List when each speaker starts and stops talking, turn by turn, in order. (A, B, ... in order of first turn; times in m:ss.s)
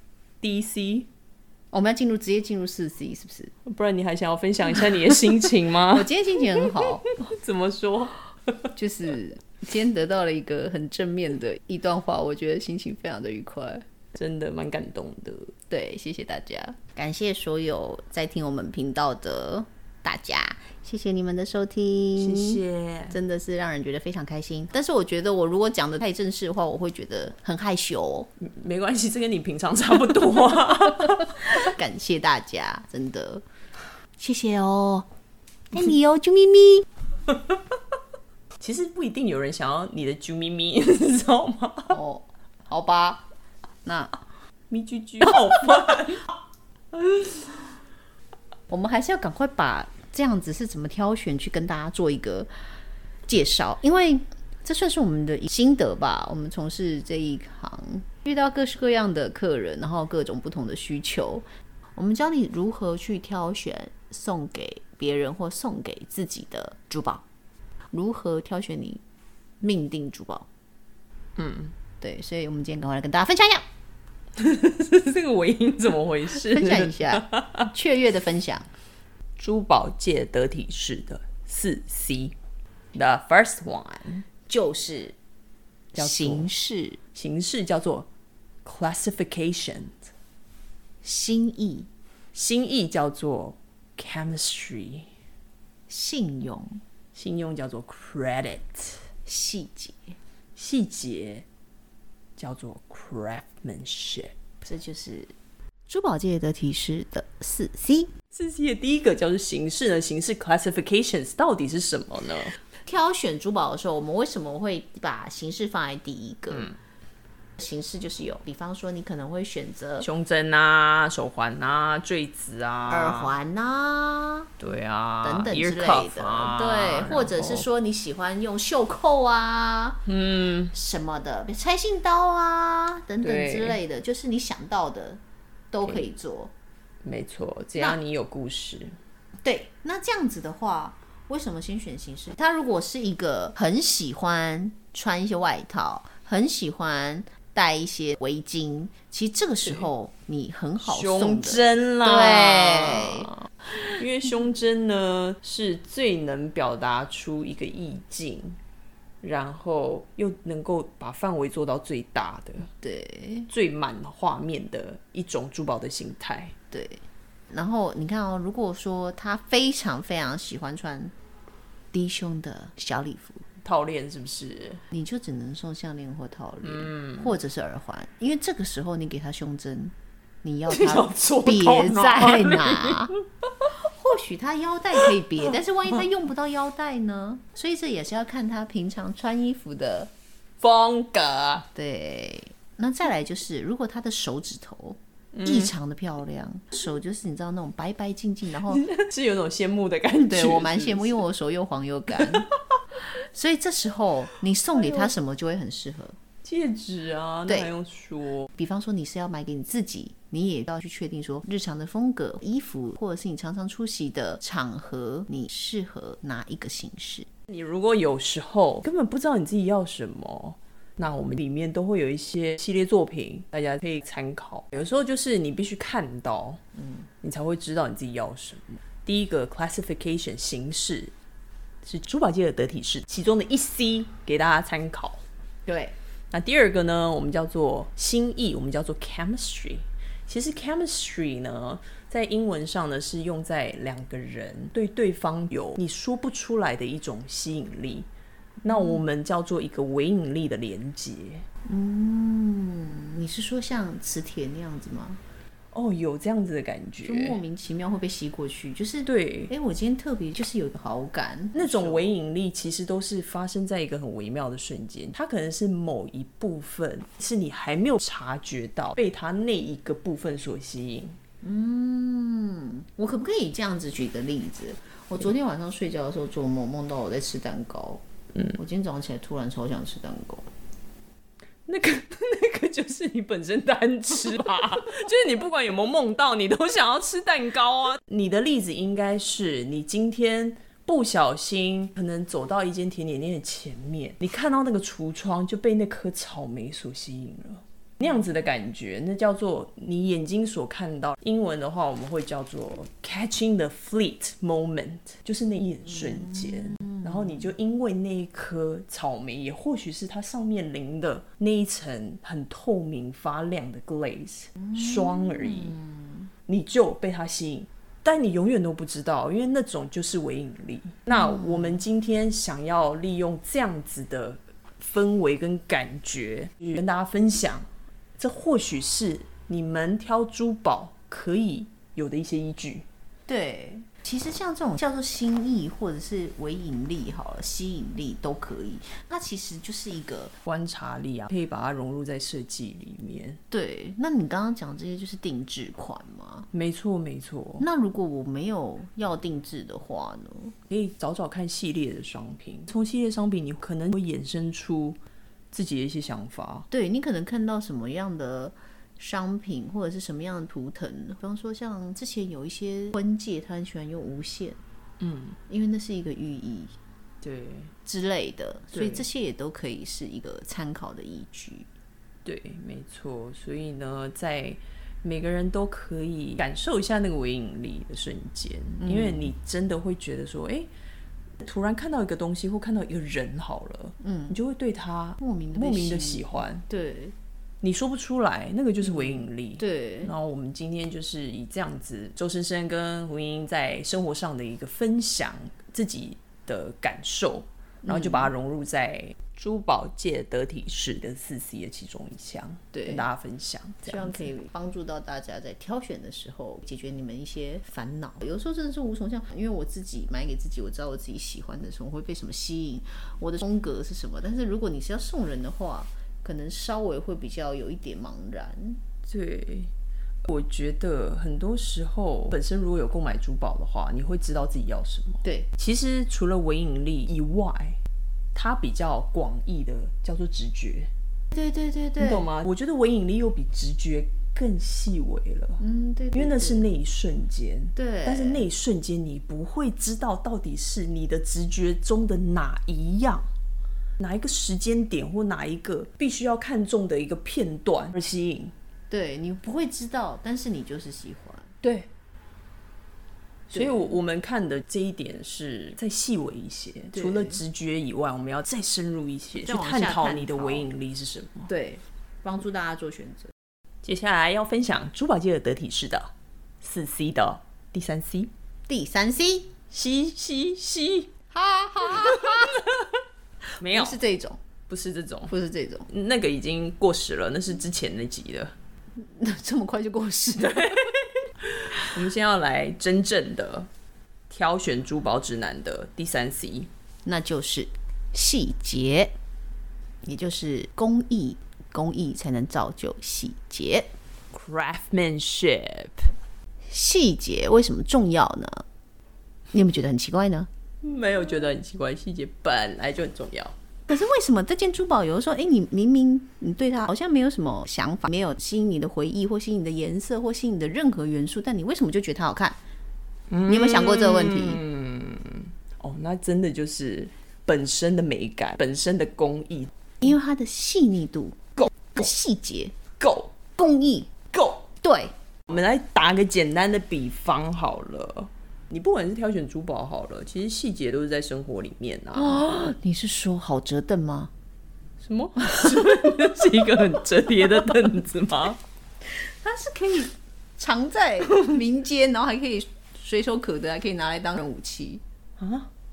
0:00.4-0:01.1 A
0:01.7-0:03.5 B
0:03.6-0:08.7 A
0:05.9-0:07.1 B
0:08.8-0:13.8 B
0:14.1-0:15.5 A
0:15.7-0:28.3 B
0:22.2-0:23.2 A
0:28.4-0:31.7 A
0:31.6-0:33.4 B
0:34.2-0:35.1 B
0:35.7-0:36.9 B
0:38.6-0:42.0 A
0:41.9-0:43.2 B
0:43.8-0:44.1 B
0:44.7-0:46.3 A
0:47.0-0:47.4 A
0:48.7-0:52.5 B
0:53.3-1:01.4 B
1:02.0-1:07.2 B
1:07.9-1:09.0 B
1:09.6-1:10.5 B
1:11.4-1:11.7 A
1:12.0-1:13.6 B
1:14.4-1:17.7 A
1:16.3-1:18.7 B
1:19.4-1:22.4 A
1:22.9-1:24.3 A
1:24.5-1:25.2 B
1:25.9-1:27.0 B
1:26.0-1:26.5 A
1:27.1-1:28.1 A
1:28.6-1:30.1 A
1:31.0-1:31.9 B
1:32.3-1:35.1 A
1:35.9-1:36.8 B
1:37.1-1:39.1 A
1:39.3-1:40.0 B
1:40.6-1:41.4 A
1:42.4-1:44.3 A
1:44.6-1:45.3 B
1:45.9-1:48.1 B
1:48.3-1:52.6 A
1:52.8-1:56.7 B
1:57.6-2:00.1 B
2:00.0-2:03.3 A
2:02.9-2:04.5 B
2:04.6-2:07.7 A
2:05.2-2:10.0 B
2:10.1-2:10.7 A
2:10.7-2:15.2 B
2:13.2-2:13.8 A
2:15.7-2:16.5 B
2:17.0-2:19.0 A
2:19.4-2:33.3 B
2:30.8-2:38.6 A
2:39.2-2:42.7 A
2:42.8-2:43.5 B
2:43.5-2:46.6 A
2:46.7-2:51.1 B
2:51.9-2:53.4 B
2:53.6-2:54.8 A
2:54.9-3:03.1 B
2:56.6-2:57.4 A
3:00.7-3:03.7 A
3:03.8-3:10.1 B
3:10.6-3:11.7 A
3:11.8-3:18.8 B
3:15.4-3:15.7 A
3:18.7-3:21.2 A
3:20.3-3:22.5 B
3:23.1-3:26.2 B
3:26.4-3:28.5 A
3:28.6-3:37.3 B
3:37.5-3:46.6 A
3:47.2-3:51.1 A
3:51.8-3:55.2 A
3:55.7-3:56.0 B
3:56.3-4:08.1 A
4:08.6-4:11.5 A
4:08.7-4:09.0 B
4:11.7-4:15.2 B
4:15.7-4:17.4 A
4:17.0-4:22.0 B
4:19.1-4:19.5 A
4:21.5-4:31.2 A
4:31.4-4:40.5 B
4:41.7-5:15.8 A
5:14.6-5:15.8 B
5:16.5-5:32.9 A
5:33.3-5:40.4 B
5:40.4-5:43.4 A
5:43.5-5:46.5 B
5:46.5-5:47.7 A
5:47.6-5:50.6 B
5:50.7-5:55.0 A
5:55.5-5:56.7 A
5:56.7-6:04.6 B
6:05.0-6:05.4 A
6:05.5-6:06.7 B
6:07.2-6:07.7 A
6:07.9-6:11.7 B
6:08.7-6:09.1 A
6:12.2-6:20.7 A
6:18.8-6:19.3 B
6:21.4-6:26.6 A
6:24.0-6:24.4 B
6:25.2-6:27.2 B
6:27.6-6:44.3 A
6:28.8-6:30.1 B
6:37.8-6:38.3 B
6:42.7-6:43.0 B
6:43.8-6:58.8 B
6:59.1-6:59.7 A
7:00.2-7:07.8 A
7:08.3-7:10.9 A
7:11.3-7:12.3 B
7:12.0-7:15.6 A
7:15.6-7:16.6 B
7:16.2-7:23.3 A
7:17.8-7:18.5 B
7:24.0-7:28.6 A
7:28.9-7:31.6 B
7:31.6-7:31.9 A
7:33.5-7:41.5 A
7:36.9-7:37.4 B
7:39.3-7:40.7 B
7:41.5-7:43.3 B
7:43.8-7:48.3 A
7:48.7-7:49.5 B
7:49.7-7:51.1 A
7:51.3-7:52.7 B
7:51.9-7:52.8 A
7:53.6-7:54.0 A
7:53.7-7:54.4 B
7:54.7-7:55.3 A
7:55.3-7:55.9 B
7:55.9-7:58.6 A
7:59.0-8:01.0 B
8:01.4-8:03.7 A
8:04.3-8:06.7 A
8:07.1-8:09.1 B
8:10.0-8:13.9 B
8:14.3-8:16.1 A
8:16.7-8:18.6 B
8:19.5-8:20.5 B
8:20.8-8:23.6 A
8:23.9-8:32.6 B
8:33.3-8:39.7 A
8:33.5-8:34.6 B
8:40.0-8:42.8 B
8:43.0-8:43.4 A
8:43.6-8:44.1 B
8:44.3-8:44.7 A
8:44.8-8:45.1 B
8:45.5-8:52.7 A
8:52.1-8:54.3 B
8:55.0-8:58.6 A
8:59.3-9:05.0 B
9:05.4-9:05.7 A